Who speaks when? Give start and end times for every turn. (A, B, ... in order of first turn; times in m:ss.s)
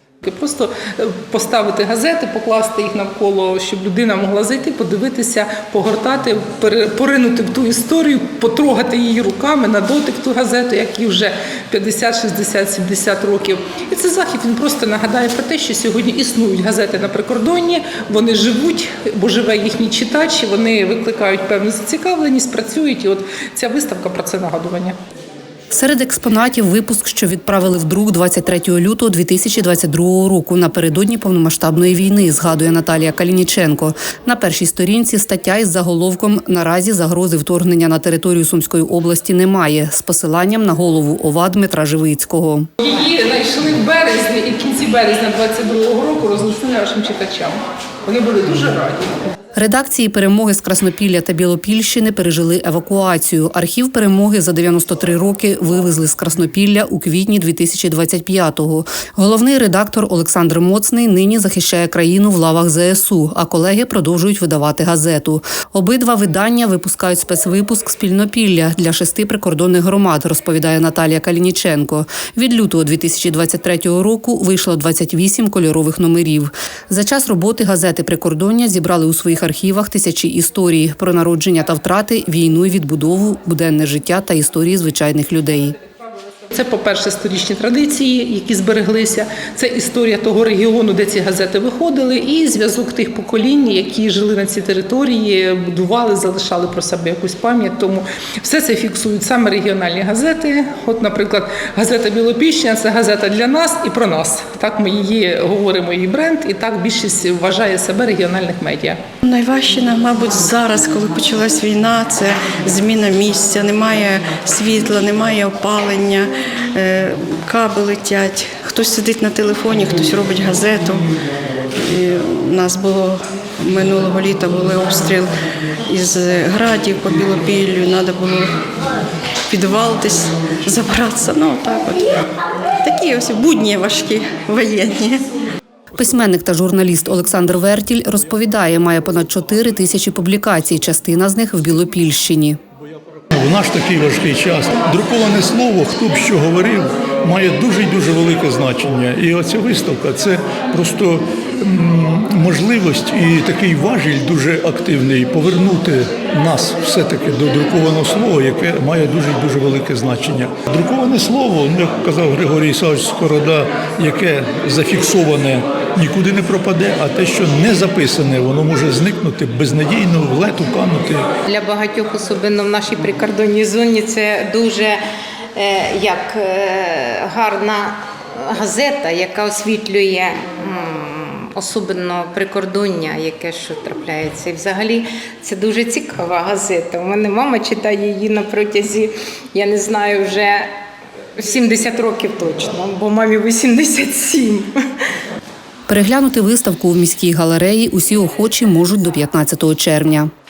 0:00.2-0:25.0 A
0:25.7-0:42.7 B
0:42.8-0:49.2 A
0:49.6-1:25.8 B
1:26.5-1:49.0 A
1:49.2-2:01.1 C
2:01.8-2:05.3 C
2:05.9-2:08.5 C
2:09.5-2:12.2 C
2:12.8-2:15.2 C
2:16.0-2:22.6 B
2:23.3-2:51.2 D
2:51.5-2:55.0 E
2:55.6-3:10.7 E
3:11.4-3:14.7 E
3:15.9-3:20.3 B